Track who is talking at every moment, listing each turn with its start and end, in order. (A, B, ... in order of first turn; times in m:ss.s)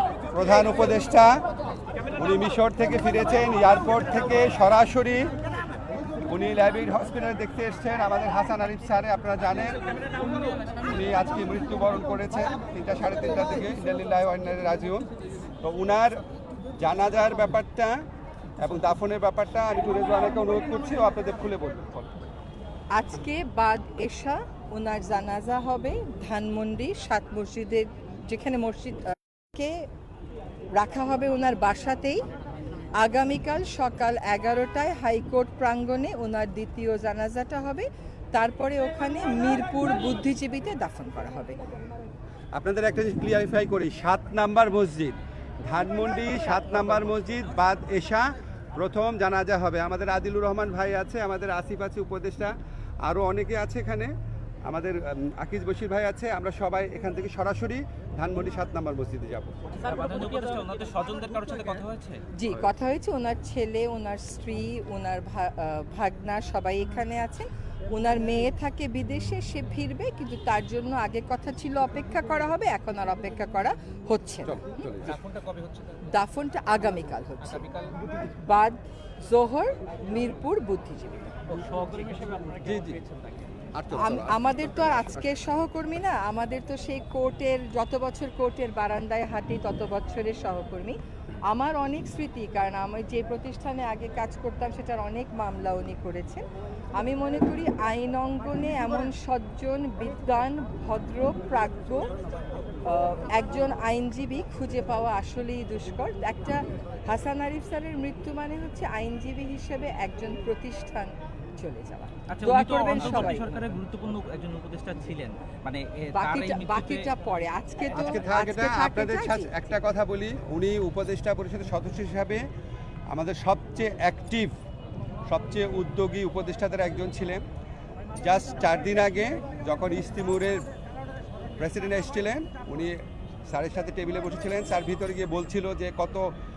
0:00.3-0:01.4 A
0:02.2-0:05.3 A
0:06.3-0:09.8 A
0:10.9-0:15.1 A
0:15.6-0:16.2 A
0:16.8-0:18.0 A
0:18.6-0:22.1 A
0:22.9-0:29.8 B
0:30.7-0:32.2 B
0:33.0-0:41.6 B
0:42.5-0:54.1 A
0:54.6-0:59.5 A
0:59.8-1:02.2 C
1:02.4-1:14.6 B
1:14.4-1:15.2 A
1:15.1-1:15.8 C
1:16.1-1:17.6 B
1:17.5-1:17.8 C
1:18.4-1:21.8 B
1:21.9-1:22.2 C
1:22.6-1:23.0 A
1:23.7-1:25.2 A
1:23.9-1:31.0 B
1:31.5-1:36.4 B
1:37.0-1:42.1 B
1:42.8-1:53.4 B
1:52.3-1:57.1 C
1:56.1-1:59.6 B
1:57.9-2:02.4 A
2:03.1-2:04.5 A
2:05.3-2:07.4 A
2:08.2-2:10.7 A
2:11.6-2:16.3 A